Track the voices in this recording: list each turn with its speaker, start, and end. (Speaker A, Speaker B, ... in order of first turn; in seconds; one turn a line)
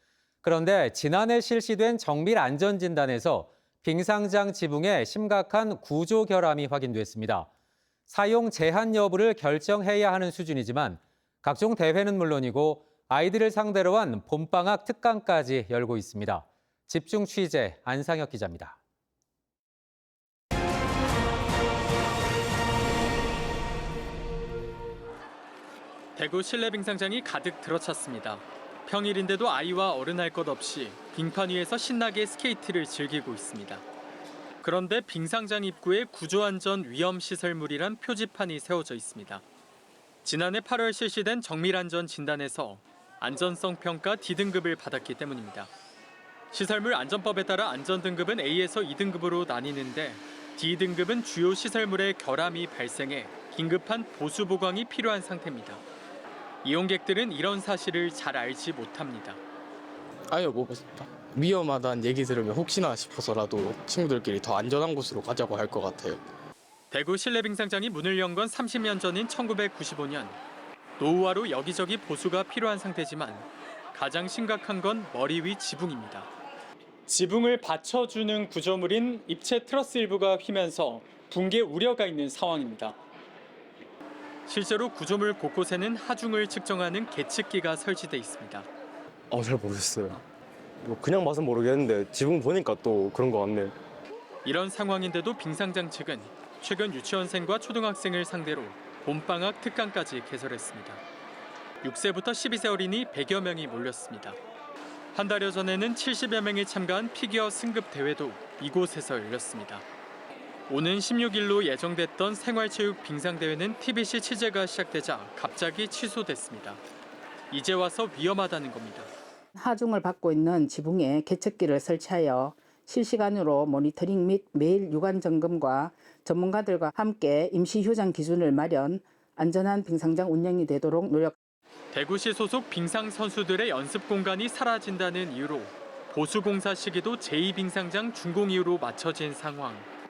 Speaker A: 0.4-7.5
Speaker A: 8.1-18.8
Speaker B: 26.1-33.8
Speaker B: 34.6-39.4
Speaker B: 40.2-45.7
Speaker B: 46.5-55.8
Speaker B: 56.6-59.4
Speaker C: 60.3-66.2
Speaker B: 66.9-70.4
Speaker B: 71.0-76.3
Speaker B: 77.1-83.0
Speaker B: 84.5-88.7
Speaker D: 89.3-90.2
Speaker D: 90.8-93.7
Speaker B: 94.4-101.0
Speaker B: 101.8-104.4
Speaker B: 105.1-109.8
Speaker B: 110.7-116.8
Speaker B: 117.5-119.1
Speaker E: 119.5-131.3
Speaker B: 131.9-139.9